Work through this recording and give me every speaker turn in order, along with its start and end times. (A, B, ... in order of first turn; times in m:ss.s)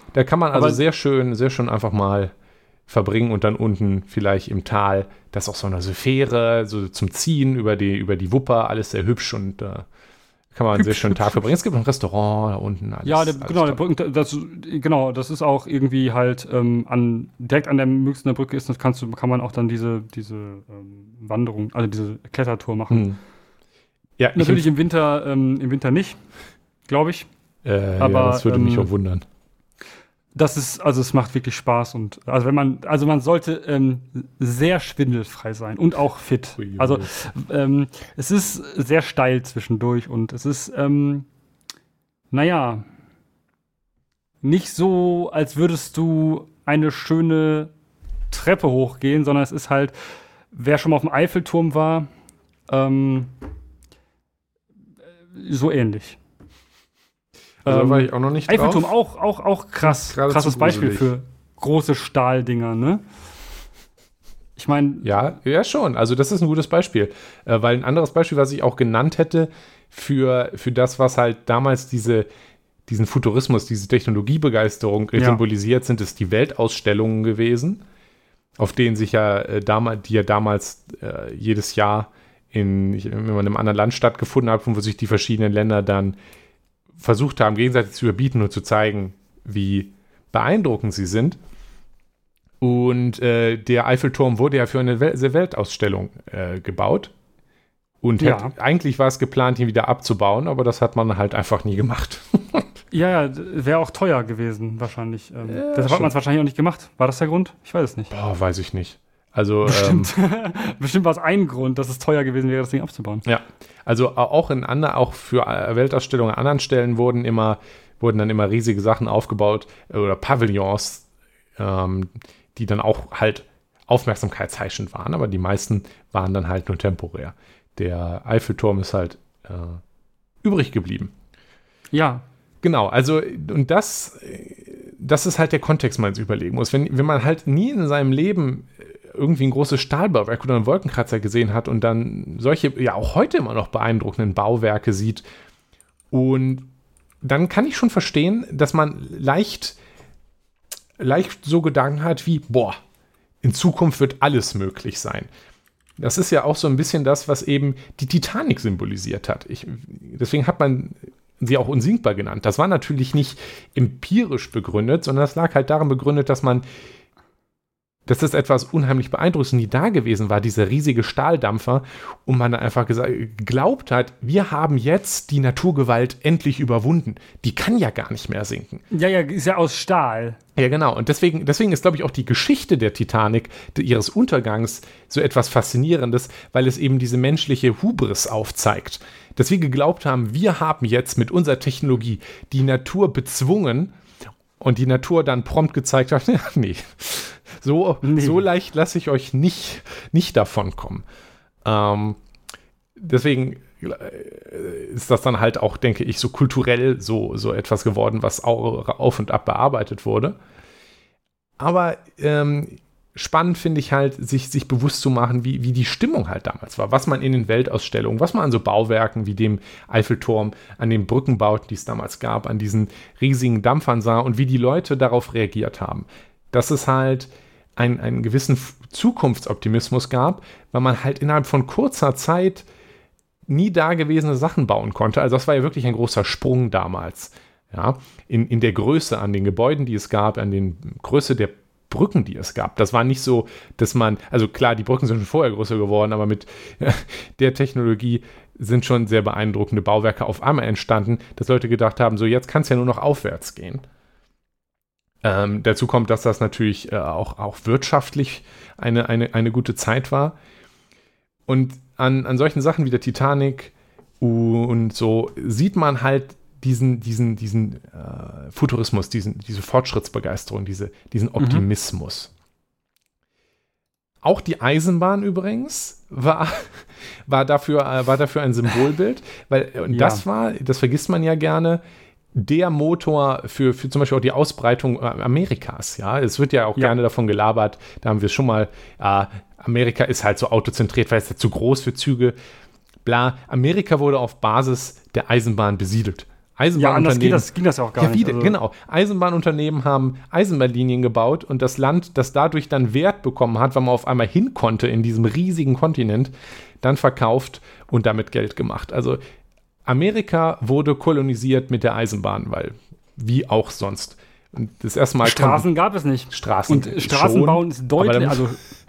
0:00.1-0:02.3 A
0:00.5-0:00.8 B
0:02.9-0:09.9 A
0:10.5-0:13.8 A
0:10.7-0:11.4 B
0:13.0-0:23.1 B
0:22.9-0:23.2 A
0:24.2-0:24.7 A
0:24.3-0:26.2 B
0:26.9-0:27.3 B
0:27.6-0:29.2 A
0:28.0-0:28.9 B
0:30.3-0:41.2 B
0:36.6-0:37.1 A
0:42.3-0:42.8 B
0:44.4-0:47.7 B
0:48.3-0:49.9 B
0:50.5-0:52.1 B
0:52.7-0:53.3 B
0:55.3-0:56.2 B
0:57.6-0:58.9 A
0:57.6-1:03.0 B
0:59.8-1:01.1 A
1:04.6-1:05.2 B
1:05.0-1:12.3 A
1:12.9-1:17.8 A
1:15.2-1:15.4 B
1:18.6-1:26.2 A
1:27.0-1:31.4 A
1:32.6-1:37.1 A
1:38.0-1:42.7 A
1:38.2-1:38.5 B
1:42.9-1:48.1 B
1:45.4-1:46.1 A
1:48.1-1:50.1 A
1:49.6-1:53.2 B
1:53.2-2:01.0 A
2:01.6-2:09.8 A
2:10.4-2:11.1 A
2:11.9-2:12.2 B
2:12.6-2:25.2 A
2:26.1-2:26.7 A
2:27.2-2:29.8 A
2:31.0-2:32.8 A
2:33.4-2:35.3 A
2:36.0-2:46.6 A
2:48.1-2:58.8 A
2:58.9-3:00.4 B
3:00.6-3:13.9 A
3:14.6-3:21.0 A
3:18.0-3:18.4 B
3:21.6-3:22.2 A
3:23.0-3:30.4 A
3:31.6-3:52.6 A
3:53.5-4:13.8 A
4:15.2-4:20.4 A
4:21.5-4:32.3 A
4:31.4-4:31.6 B
4:34.2-4:41.8 A
4:39.9-4:40.2 B
4:42.3-4:52.3 A
4:53.0-5:09.2 A
4:56.7-4:58.6 B
5:09.8-5:15.6 A
5:15.2-5:18.6 B
5:16.3-5:18.5 A